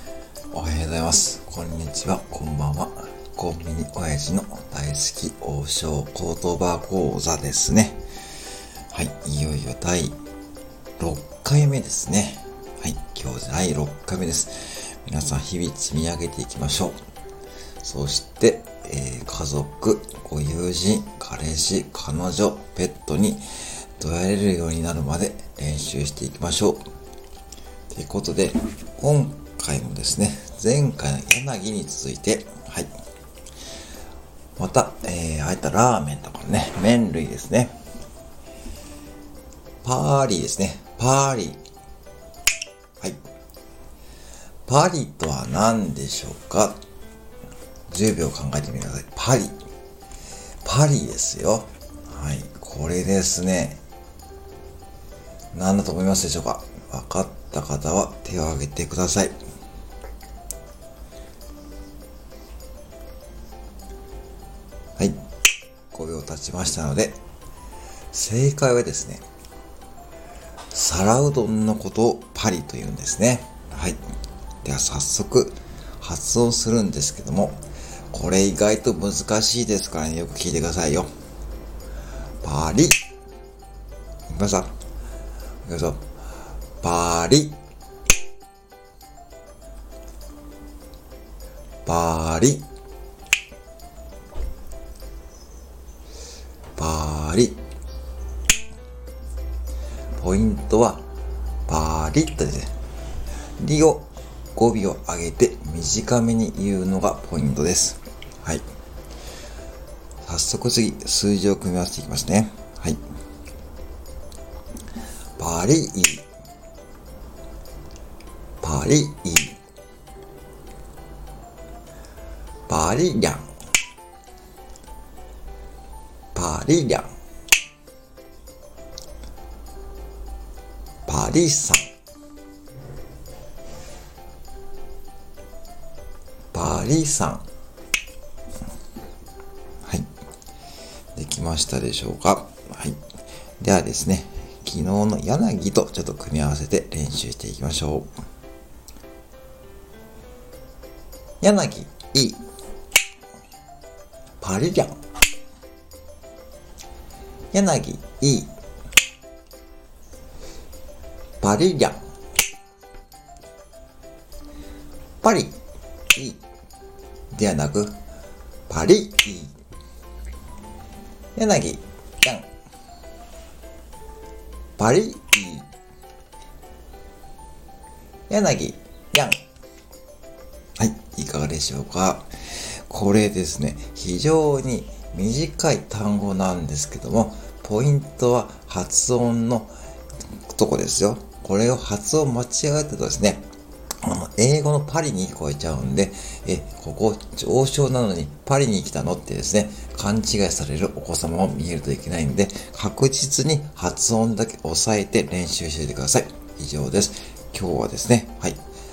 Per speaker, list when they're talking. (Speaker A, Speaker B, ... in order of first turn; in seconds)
Speaker A: 0.5-8.0, 8.9-10.2, 11.0-17.0, 17.8-23.4, 24.0-26.8, 27.9-32.9, 34.6-37.8, 39.8-41.6, 44.7-46.8, 47.9-49.6, 50.6-53.8, 55.5-59.4, 65.9-67.2, 68.1-69.2, 70.7-74.0, 74.6-81.1, 82.4-83.0, 84.3-84.7, 85.6-86.1, 86.8-87.6, 91.8-92.7, 96.8-97.6, 100.1-101.0, 101.7-102.7, 103.6-108.6, 110.2-113.0, 115.4-116.2, 118.6-119.6, 122.7-123.5, 126.3-127.1, 131.1-131.9, 136.5-137.4, 141.1-143.0, 143.6-148.1, 151.4-152.4, 154.4-155.0, 157.5-158.5, 161.4-162.0, 165.2-165.6, 166.1-166.4, 167.3-168.0, 168.7-169.5, 171.3-172.5, 174.8-175.7, 178.3-179.4, 180.8-189.7, 190.5-193.5, 194.0-208.6